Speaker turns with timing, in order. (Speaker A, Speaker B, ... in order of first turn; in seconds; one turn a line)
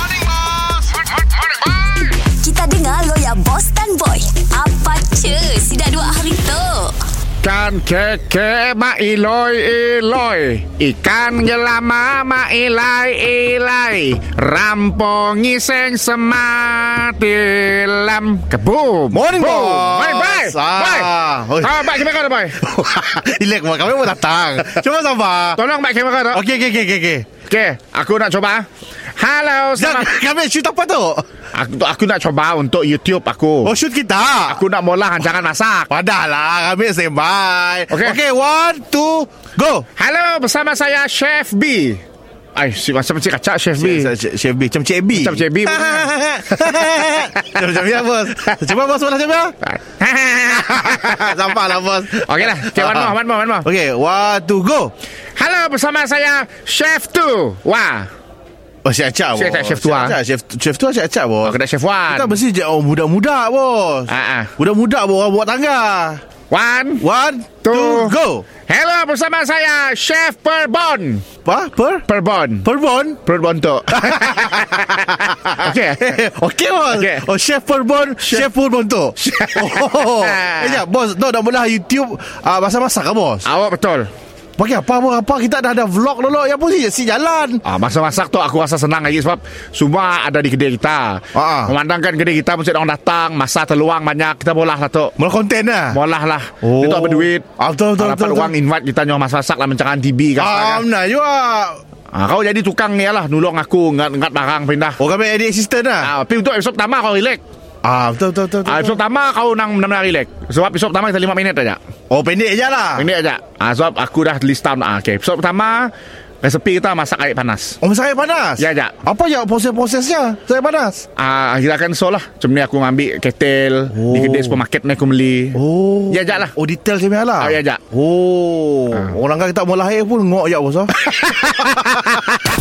Speaker A: 1.6-2.0
Speaker B: 2.2-7.0
Speaker A: 7.4-22.6
Speaker C: 19.1-22.1
Speaker C: 22.6-25.6
Speaker A: 25.6-26.4
Speaker C: 26.3-27.3
Speaker A: 27.5-28.7
Speaker A: 29.2-30.1
Speaker C: 29.8-31.2
Speaker A: 31.5-33.7
Speaker C: 33.6-34.6
Speaker A: 34.5-35.9
Speaker C: 35.9-39.9
Speaker A: 37.9-38.2
Speaker A: 40.0-42.0
Speaker A: 42.5-44.1
Speaker C: 43.8-49.6
Speaker A: 45.1-47.6
Speaker A: 49.7-51.4
Speaker C: 50.5-54.9
Speaker A: 52.2-53.7
Speaker A: 55.4-58.1
Speaker C: 58.8-61.6
Speaker A: 59.4-60.2
Speaker A: 61.4-62.4
Speaker C: 62.1-66.2
Speaker A: 64.1-64.5
Speaker A: 66.5-67.0
Speaker C: 67.0-68.5
Speaker A: 67.6-71.2
Speaker C: 71.5-72.0
Speaker A: 72.1-72.7
Speaker C: 72.6-73.2
Speaker A: 73.2-76.2
Speaker C: 73.9-83.5
Speaker A: 76.9-77.2
Speaker A: 78.2-78.5
Speaker A: 79.2-80.8
Speaker A: 83.5-84.1
Speaker C: 84.6-87.6
Speaker A: 87.7-95.2
Speaker C: 91.3-91.7
Speaker C: 95.2-96.0
Speaker A: 95.9-97.5
Speaker C: 96.6-98.5
Speaker A: 98.0-100.8
Speaker C: 100.4-101.8
Speaker A: 102.1-105.0
Speaker C: 105.0-106.1
Speaker A: 106.0-107.4
Speaker C: 107.8-109.0
Speaker A: 108.7-111.8
Speaker C: 112.1-113.1
Speaker A: 113.0-115.9
Speaker A: 116.4-117.8
Speaker C: 117.8-121.0
Speaker A: 118.6-119.0
Speaker A: 121.2-125.6
Speaker C: 123.9-124.6
Speaker C: 125.5-131.0
Speaker A: 126.1-126.5
Speaker A: 127.4-127.8
Speaker A: 131.1-132.4